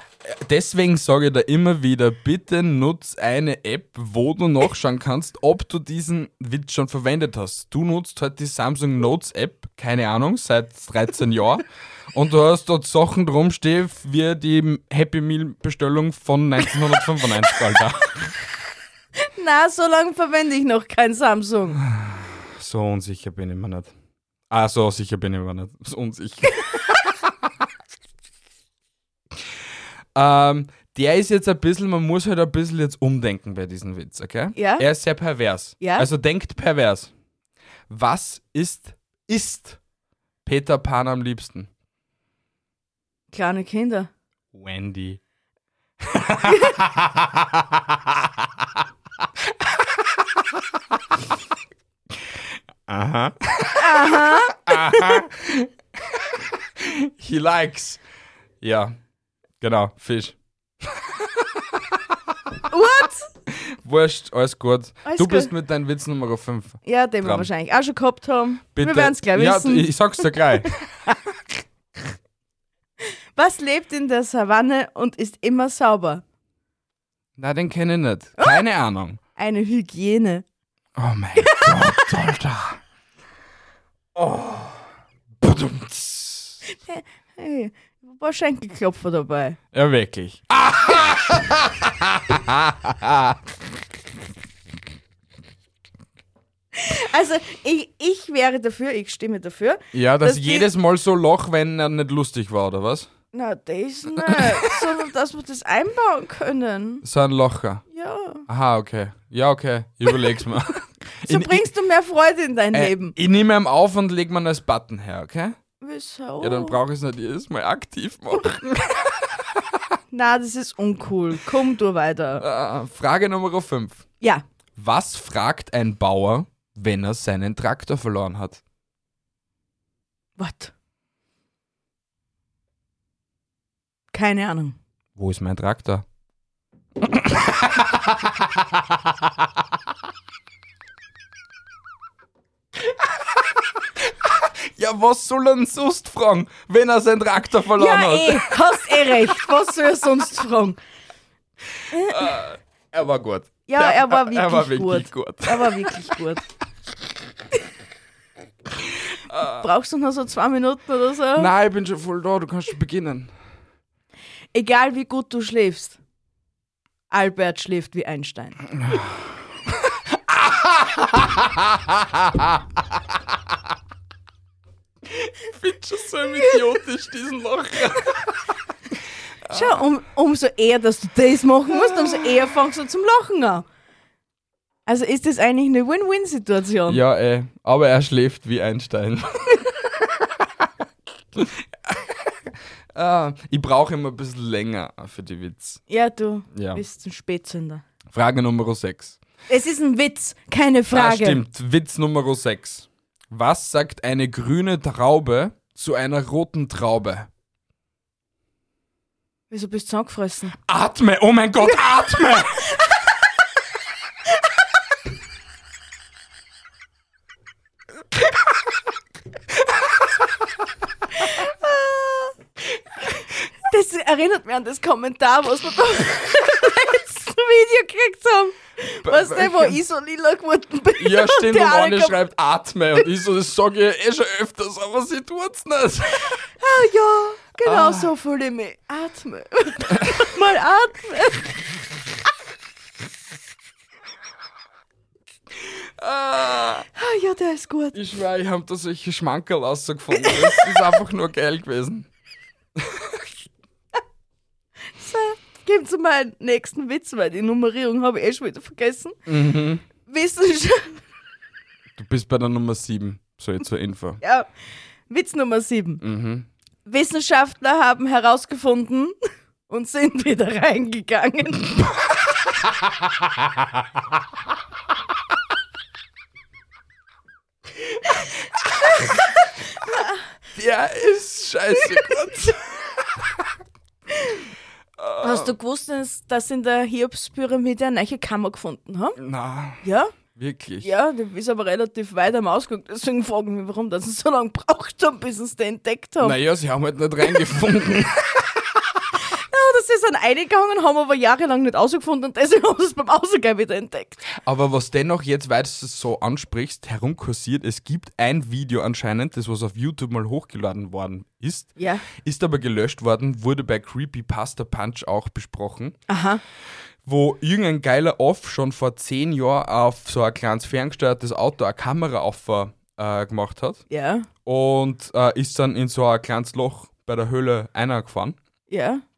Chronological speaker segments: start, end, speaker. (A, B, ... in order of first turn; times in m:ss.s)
0:00.2-0:18.3 A
0:19.3-0:21.8 B
0:21.8-0:23.9 A
0:24.5-0:27.0 A
0:30.2-0:37.1 A
0:34.6-0:34.9 B
0:35.8-0:36.1 B
0:37.9-0:39.8 A
0:40.4-0:41.7 A
0:43.3-0:44.1 B
0:44.5-0:45.2 A
0:46.0-0:48.6 A
0:46.4-0:46.7 B
0:52.3-0:58.0 A
0:53.8-0:55.2 B
0:58.6-0:59.0 A
0:59.6-1:02.2 A
1:02.7-1:03.3 B
1:03.6-1:07.5 A
1:05.0-1:05.5 B
1:06.8-1:11.2 B
1:08.8-1:10.9 A
1:13.4-1:16.2 B
1:17.4-1:19.2 A
1:19.4-1:20.4 B
1:21.0-1:22.8 A
1:21.4-1:22.1 B
1:24.2-1:24.8 A
1:25.4-1:26.6 A
1:26.7-1:29.6 B
1:29.7-1:33.4 A
1:36.7-1:40.7 B
1:39.9-1:43.1 A
1:43.3-1:47.0 B
1:44.2-1:44.8 A
1:47.0-1:47.8 A
1:47.9-1:48.4 B
1:48.5-1:51.7 A
1:51.3-1:53.2 B
1:52.7-1:55.6 A
1:55.8-1:56.8 B
1:56.4-1:59.6 A
2:00.1-2:02.4 B
2:02.4-2:04.1 A
2:04.8-2:08.6 A
2:10.4-2:10.7 B
2:14.1-2:14.8 B
2:15.2-2:16.0 A
2:17.0-2:19.5 A
2:22.9-2:28.6 A
2:27.8-2:30.8 B
2:31.9-2:32.3 B
2:31.9-2:36.2 A
2:33.7-2:36.4 B
2:39.3-2:39.7 A
2:39.4-2:41.5 B
2:41.4-2:43.3 A
2:44.5-2:46.0 B
2:47.1-2:48.6 B
2:48.8-2:53.2 A
2:55.1-2:58.4 A
2:59.4-2:59.8 A
2:59.5-3:03.6 B
3:01.8-3:02.3 A
3:04.9-3:07.0 B
3:06.9-3:10.7 A
3:11.3-3:15.8 A
3:15.9-3:17.8 B
3:16.5-3:16.8 A
3:18.1-3:19.2 A
3:19.5-3:21.4 B
3:20.9-3:27.3 A
3:29.5-3:30.6 B
3:30.7-3:32.7 A
3:41.1-3:42.4 B
3:43.7-3:52.2 B
3:49.0-3:49.8 A
3:51.0-3:56.4 A
3:56.6-4:01.5 B
3:57.6-3:58.1 A
4:05.6-4:06.9 A
4:06.9-4:08.0 B
4:07.9-4:12.1 A
4:10.2-4:10.8 B
4:12.8-4:13.3 A
4:15.0-4:19.2 B
4:19.3-4:19.8 A
4:20.0-4:21.0 B
4:22.0-4:24.2 A
4:24.2-4:24.5 B
4:25.1-4:26.0 B
4:26.0-4:26.5 A
4:26.9-4:29.2 B
4:29.7-4:31.8 B
4:32.7-4:33.7 A
4:38.1-4:39.2 A
4:39.8-4:40.2 B
4:40.6-4:43.2 A
4:45.0-4:45.5 A
4:45.2-4:49.2 B
4:49.2-4:49.8 A
4:49.8-4:50.1 B
4:50.3-4:50.9 A
4:50.8-4:56.4 B
4:56.2-4:59.0 A
4:59.3-5:04.3 B
5:04.3-5:16.0 A
5:11.8-5:12.0 B
5:16.1-5:16.4 B
5:17.0-5:23.8 A
5:23.9-5:24.3 B
5:24.4-5:28.4 A
5:28.7-5:29.0 B